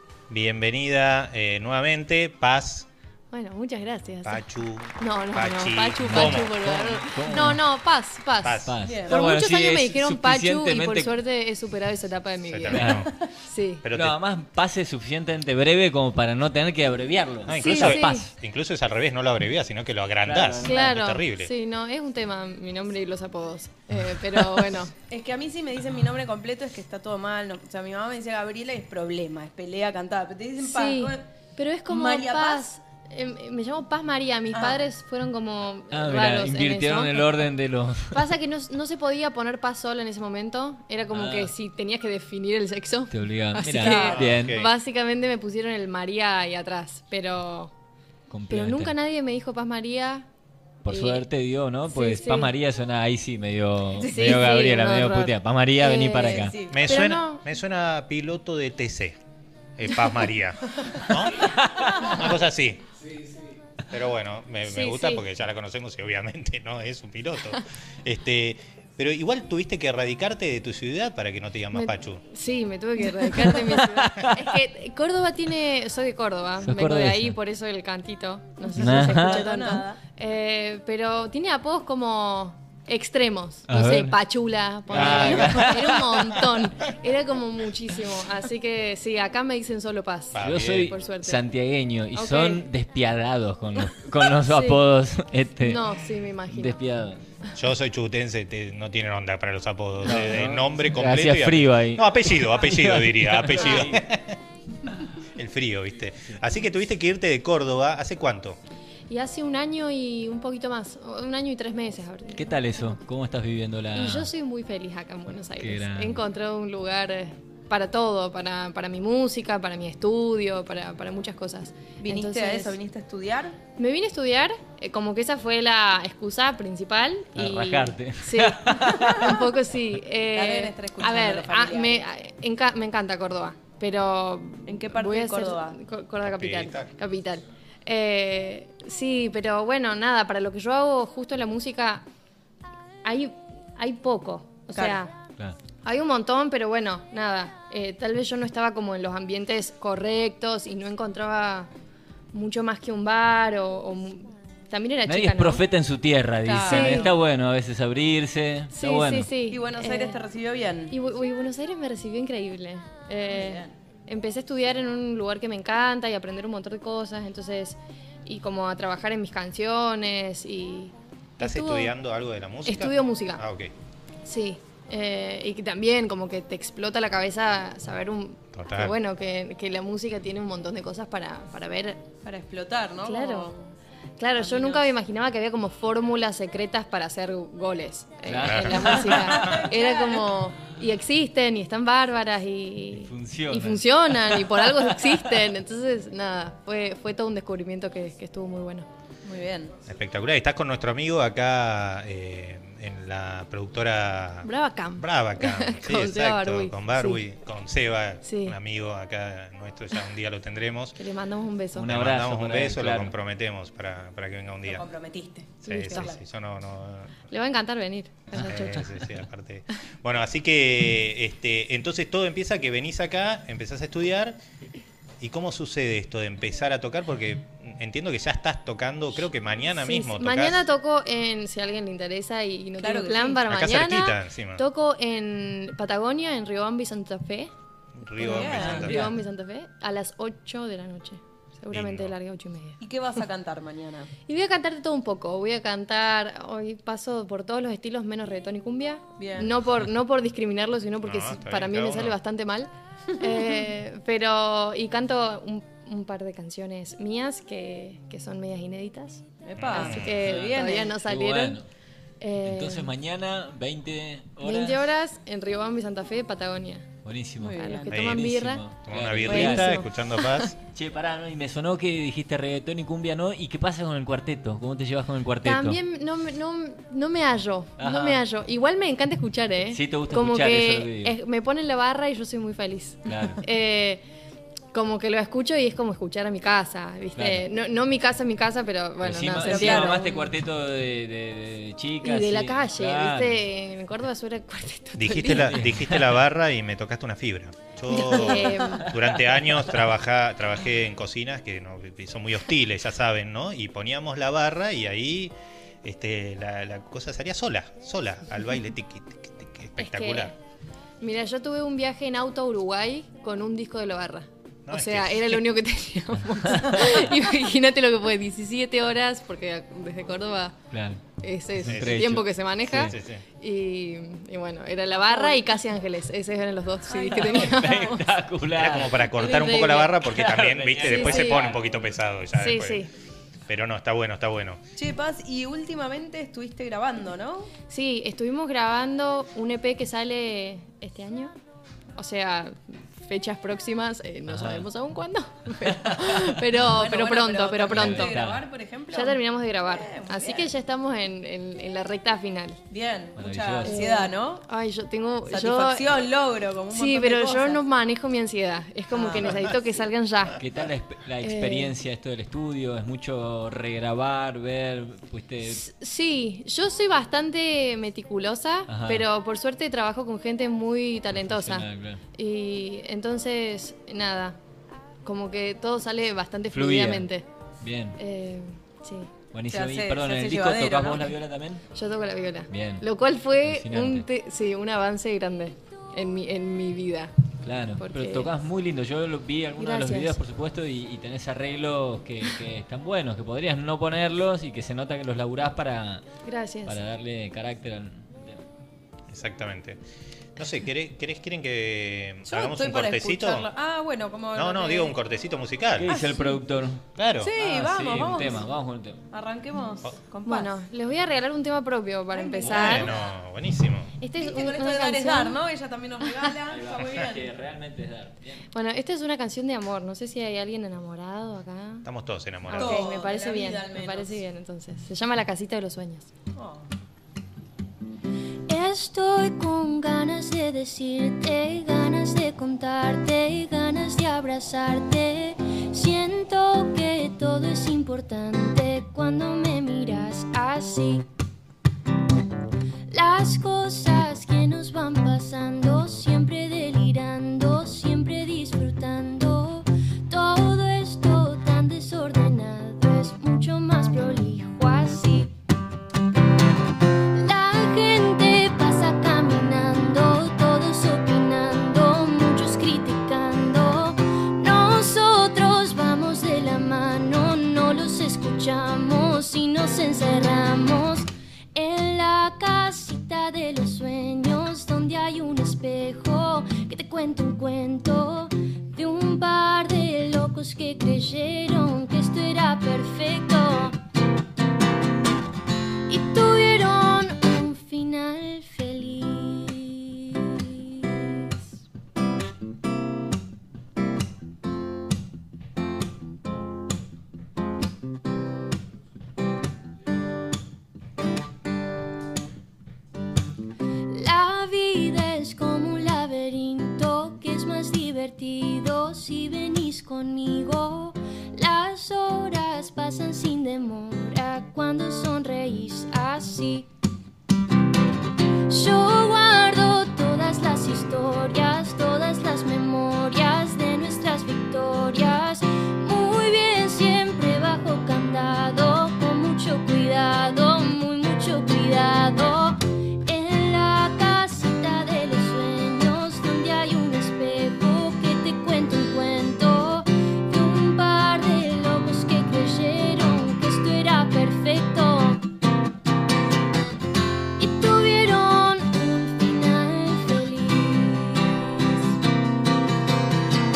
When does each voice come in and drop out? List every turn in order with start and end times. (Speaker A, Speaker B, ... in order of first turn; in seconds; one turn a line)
Speaker A: 0.3-2.9
Speaker B: 3.3-4.4
Speaker A: 4.2-7.0
Speaker B: 5.0-13.8
Speaker C: 6.0-7.6
Speaker A: 8.4-8.8
Speaker C: 8.6-11.1
Speaker D: 8.8-9.2
Speaker A: 12.4-13.1
Speaker C: 12.7-13.1
Speaker A: 13.8-14.2
Speaker C: 13.9-18.3
Speaker A: 17.4-21.5
Speaker B: 17.6-18.3
Speaker C: 20.2-20.9
Speaker B: 20.6-24.9
Speaker D: 25.1-31.2
Speaker B: 30.6-37.4
Speaker D: 31.9-32.7
Speaker D: 34.5-34.8
Speaker C: 35.9-38.3
Speaker B: 38.1-47.7
Speaker C: 41.1-41.5
Speaker C: 43.1-44.6
Speaker D: 43.8-44.2
Speaker A: 44.1-44.7
Speaker C: 48.3-48.9
Speaker B: 48.5-50.3
Speaker C: 50.8-56.6
Speaker B: 50.9-51.2
Speaker B: 51.9-52.5
Speaker B: 54.0-57.4
Speaker D: 56.3-56.9
Speaker A: 56.7-59.2
Speaker A: 59.8-62.8
Speaker C: 61.6-62.1
Speaker A: 63.9-72.2
Speaker B: 64.6-65.2
Speaker B: 71.7-91.4
Speaker C: 73.2-74.4
Speaker C: 76.6-77.3
Speaker D: 78.7-80.0
Speaker C: 78.7-79.5
Speaker C: 83.7-84.2
Speaker A: 84.9-85.8
Speaker C: 84.9-86.5
Speaker A: 90.3-91.0
Speaker C: 90.4-95.9
Speaker B: 92.1-92.6
Speaker B: 94.3-94.8
Speaker B: 95.6-96.7
Speaker C: 96.5-97.2
Speaker A: 97.5-104.4
Speaker C: 100.0-104.0
Speaker A: 105.3-108.6
Speaker B: 109.1-113.0
Speaker C: 112.3-114.3
Speaker B: 113.9-122.8
Speaker C: 115.6-116.2
Speaker D: 122.0-123.6
Speaker B: 123.8-142.1
Speaker C: 127.3-129.5
Speaker D: 130.3-132.0
Speaker D: 134.7-135.8
Speaker A: 136.2-136.9
Speaker B: 143.0-145.1
Speaker D: 144.7-145.0
Speaker B: 145.8-151.7
Speaker B: 152.3-155.6
Speaker C: 155.1-159.3
Speaker D: 156.4-157.1
Speaker B: 156.6-157.1
Speaker B: 158.7-160.2
Speaker D: 159.5-160.9
Speaker B: 160.9-171.9
Speaker D: 163.3-163.7
Speaker A: 171.4-173.7
Speaker B: 172.7-173.4
Speaker B: 174.2-182.1
Speaker A: 178.5-179.0
Speaker D: 182.2-183.7
Speaker B: 183.0-183.5
Speaker B: 184.2-198.9
Speaker D: 184.3-184.9
Speaker C: 188.2-189.4
Speaker A: 188.3-189.6
Speaker D: 189.2-190.3
Speaker C: 192.9-195.4
Speaker D: 199.2-199.7
Speaker A: 199.8-211.0
Speaker B: 204.4-207.2
Speaker B: 208.2-208.6
Speaker B: 211.0-211.9
Speaker C: 211.8-213.1
Speaker A: 211.8-214.9
Speaker D: 214.7-216.2
Speaker A: 215.6-217.2
Speaker B: 215.7-216.1
Speaker B: 217.3-219.0
Speaker C: 218.3-218.7
Speaker A: 218.4-224.4
Speaker A: 225.2-230.7
Speaker B: 229.7-237.5
Speaker D: 232.8-233.4
Speaker A: 233.5-234.7
Speaker A: 238.0-239.1
Speaker B: 238.2-242.8
Speaker D: 238.2-238.9
Speaker C: 238.5-239.2
Speaker A: 241.7-242.2
Speaker D: 242.8-244.1
Speaker B: 244.3-261.6
Speaker D: 249.2-249.5
Speaker A: 251.0-252.2
Speaker D: 259.4-260.9
Speaker A: 259.6-260.2
Speaker C: 260.1-261.7
Speaker B: 262.2-262.9
Speaker C: 262.4-264.9
Speaker B: 264.4-266.9
Speaker C: 267.0-269.8
Speaker D: 267.4-267.9
Speaker B: 267.6-268.6
Speaker A: 268.0-268.2
Speaker A: 268.8-270.6
Speaker B: 269.3-269.9
Speaker C: 270.6-275.8
Speaker B: 275.4-284.0
Speaker C: 277.8-278.2
Speaker C: 279.7-281.2
Speaker C: 283.1-283.4
Speaker B: 284.7-290.3
Speaker C: 287.1-287.4
Speaker C: 289.0-293.4
Speaker D: 289.4-290.2
Speaker B: 292.0-295.6
Speaker A: 294.9-310.3
Speaker C: 295.2-296.2
Speaker B: 297.9-299.0
Speaker B: 309.8-310.3
Speaker B: 311.0-320.6
Speaker A: 314.7-315.4
Speaker C: 316.4-317.1
Speaker C: 320.7-321.0
Speaker B: 321.2-328.1
Speaker C: 321.6-322.9
Speaker A: 321.6-322.1
Speaker A: 322.7-323.2
Speaker D: 325.1-325.4
Speaker D: 326.9-328.0
Speaker C: 327.1-329.0
Speaker A: 328.6-332.9
Speaker B: 329.0-330.0
Speaker C: 330.0-331.6
Speaker B: 330.8-331.5
Speaker B: 332.4-332.9
Speaker A: 333.5-334.6
Speaker D: 334.8-337.5
Speaker B: 337.7-341.3
Speaker B: 341.9-348.2
Speaker C: 344.3-344.7
Speaker C: 345.6-346.7
Speaker D: 346.6-350.5
Speaker C: 347.7-348.4
Speaker B: 348.9-352.6
Speaker D: 352.7-354.4
Speaker C: 353.2-353.9
Speaker B: 353.6-355.9
Speaker D: 355.3-357.6
Speaker B: 356.7-360.4
Speaker D: 358.9-359.4
Speaker C: 360.4-365.6
Speaker B: 361.2-361.7
Speaker B: 365.4-374.4
Speaker C: 368.7-369.1
Speaker C: 371.1-372.0
Speaker B: 375.0-377.2
Speaker C: 376.5-377.1
Speaker C: 377.6-378.0
Speaker B: 378.0-379.1
Speaker C: 379.3-381.6
Speaker D: 379.5-381.1
Speaker B: 381.7-387.1
Speaker C: 382.5-382.9
Speaker C: 383.4-384.1
Speaker C: 387.4-396.0
Speaker B: 387.8-388.3
Speaker B: 389.6-390.2
Speaker B: 396.2-396.8
Speaker C: 396.6-398.4
Speaker A: 399.1-399.8
Speaker A: 400.4-403.5
Speaker D: 402.2-405.0
Speaker A: 404.3-406.0
Speaker C: 405.8-409.0
Speaker D: 405.9-406.4
Speaker A: 407.0-407.3
Speaker D: 407.2-408.4
Speaker D: 409.1-410.5
Speaker B: 410.2-412.9
Speaker D: 412.1-413.1
Speaker A: 412.4-413.9
Speaker B: 414.0-415.4
Speaker D: 414.2-417.2
Speaker C: 416.5-418.4
Speaker B: 418.5-421.9
Speaker A: 421.8-422.9
Speaker B: 422.5-426.1
Speaker D: 422.5-424.2
Speaker D: 426.3-426.7
Speaker E: 428.5-441.1
Speaker E: 442.9-455.3
Speaker E: 457.1-483.8
Speaker E: 485.9-491.4
Speaker E: 503.9-516.7
Speaker E: 518.5-545.2
Speaker E: 547.4-551.9